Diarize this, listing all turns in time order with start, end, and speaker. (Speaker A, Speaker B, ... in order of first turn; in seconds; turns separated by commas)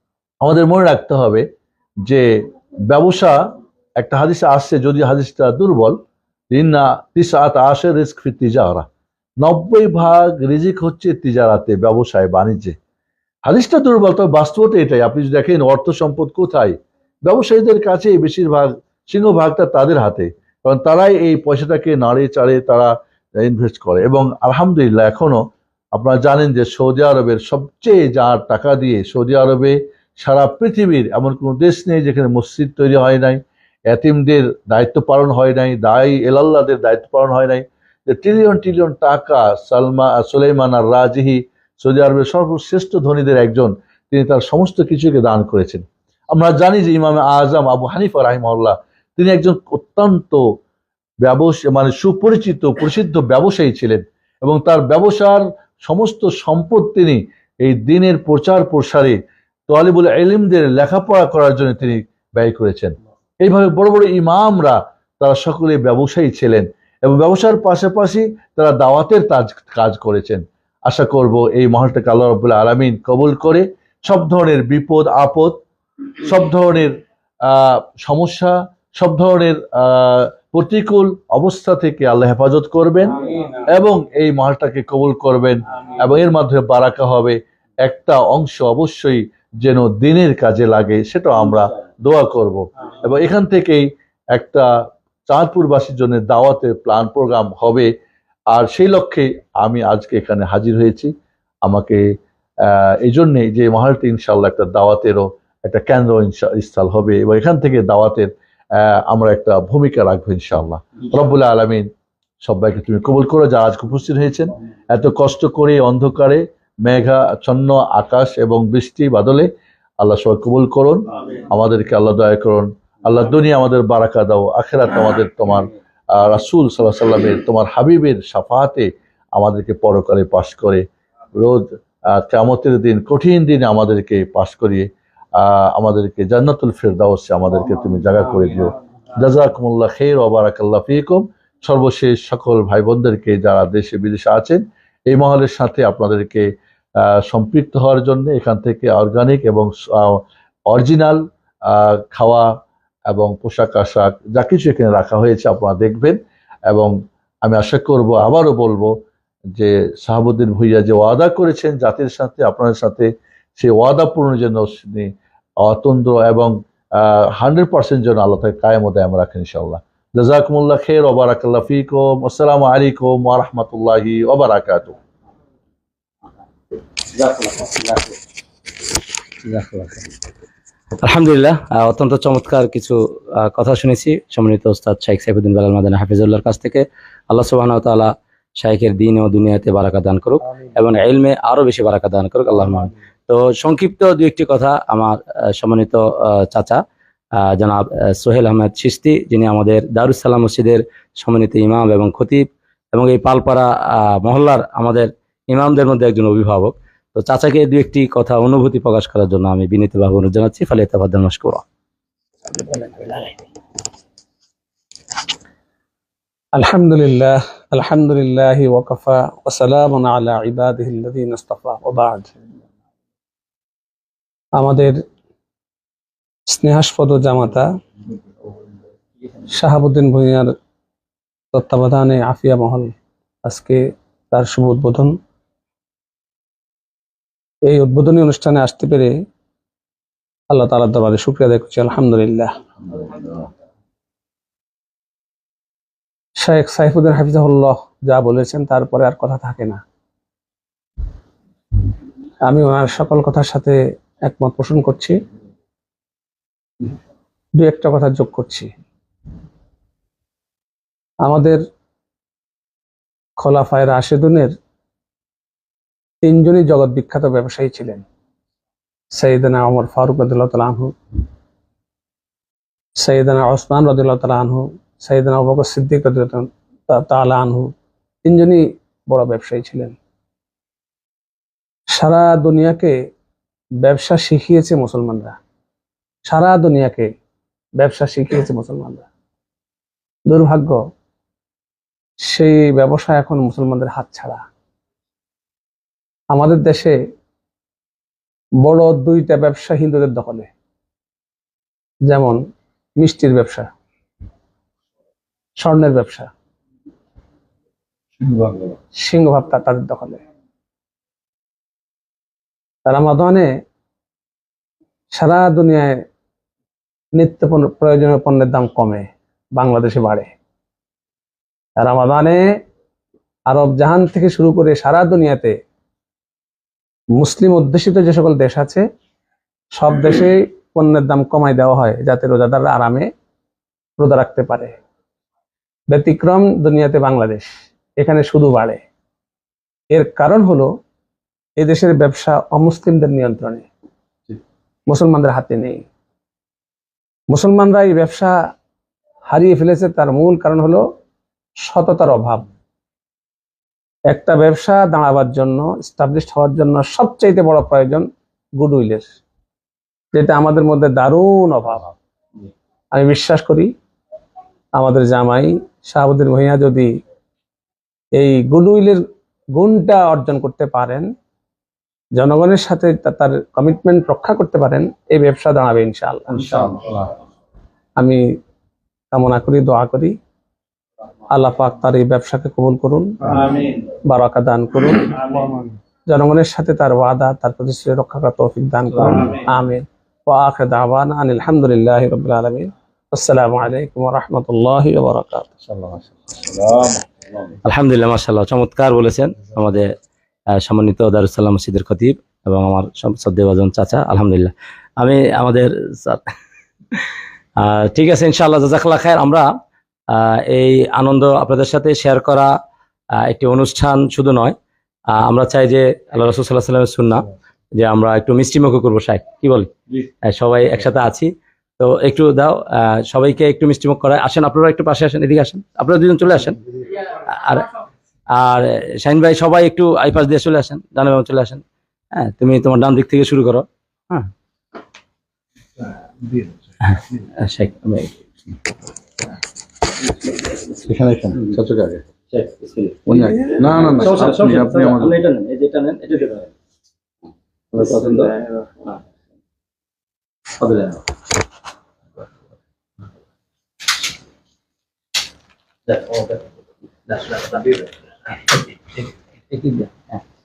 Speaker A: 0.4-1.4, Speaker A: 2.0-6.0, Speaker A: 6.5-8.8, Speaker A: 9.4-12.7, Speaker A: 13.5-22.9, Speaker A: 23.4-25.4, Speaker A: 25.9-50.4, Speaker A: 51.2-59.2, Speaker A: 59.7-75.5, Speaker A: 76.2-76.9, Speaker A: 77.5-94.7, Speaker A: 95.3-97.9, Speaker A: 98.5-101.1, Speaker A: 101.6-102.0, Speaker A: 102.6-111.9, Speaker A: 112.4-119.5, Speaker A: 120.0-130.8, Speaker A: 131.3-146.4, Speaker A: 147.0-152.5, Speaker A: 153.1-156.2, Speaker A: 156.7-158.9, Speaker A: 159.5-165.1, Speaker A: 165.6-174.9, Speaker B: 177.1-178.1, Speaker B: 179.4-180.1, Speaker B: 181.0-196.8, Speaker B: 197.4-211.6, Speaker B: 212.6-213.2, Speaker C: 216.5-222.3, Speaker C: 224.5-225.0, Speaker C: 226.5-227.7, Speaker C: 229.5-230.5, Speaker C: 231.5-232.9, Speaker C: 233.4-233.8, Speaker C: 234.3-235.1, Speaker C: 237.6-239.1, Speaker C: 240.5-242.5, Speaker A: 243.0-243.3, Speaker C: 246.4-249.8, Speaker C: 252.4-255.1, Speaker C: 257.5-258.7, Speaker C: 261.2-261.6, Speaker C: 263.4-264.5, Speaker C: 266.2-268.0, Speaker C: 269.1-270.9, Speaker C: 273.0-277.7, Speaker C: 278.2-279.9, Speaker C: 281.9-282.9, Speaker C: 283.8-285.4, Speaker C: 286.2-287.1, Speaker C: 287.8-289.1, Speaker C: 290.2-290.8, Speaker C: 292.2-294.4, Speaker C: 296.3-297.0, Speaker C: 298.6-300.5, Speaker C: 302.1-302.4, Speaker C: 303.0-303.7, Speaker C: 305.6-306.3, Speaker A: 308.2-308.6, Speaker C: 308.9-310.2, Speaker C: 312.9-313.5, Speaker C: 315.1-315.9, Speaker C: 317.1-320.3, Speaker C: 321.8-322.4, Speaker C: 323.5-325.5, Speaker C: 327.2-328.8, Speaker C: 329.7-333.1, Speaker C: 334.0-334.7, Speaker C: 335.9-338.8, Speaker C: 339.9-340.7, Speaker C: 341.6-343.6, Speaker C: 344.9-345.8, Speaker C: 347.3-348.3, Speaker C: 349.3-350.8, Speaker C: 351.6-352.5, Speaker C: 354.1-358.1, Speaker C: 358.6-359.1, Speaker C: 360.1-361.9, Speaker C: 362.9-363.7, Speaker C: 364.8-366.9, Speaker C: 368.1-369.0, Speaker C: 369.6-371.1, Speaker C: 372.1-376.5, Speaker B: 376.3-376.9, Speaker C: 379.1-380.1, Speaker C: 381.3-383.5, Speaker C: 384.1-385.4, Speaker C: 386.1-395.5, Speaker A: 395.7-397.0, Speaker B: 397.6-399.9, Speaker B: 400.6-406.3, Speaker B: 407.6-409.4, Speaker B: 410.1-412.5, Speaker B: 413.2-414.5, Speaker B: 415.1-419.7, Speaker B: 420.2-426.6, Speaker B: 427.3-427.7, Speaker B: 428.3-431.6, Speaker B: 432.1-434.3, Speaker B: 436.8-438.1, Speaker A: 440.8-442.0, Speaker B: 442.3-446.5, Speaker A: 443.1-445.1, Speaker B: 447.7-449.0, Speaker A: 447.8-448.3, Speaker B: 450.6-451.0, Speaker B: 455.9-456.4, Speaker B: 457.1-457.8, Speaker B: 459.5-460.2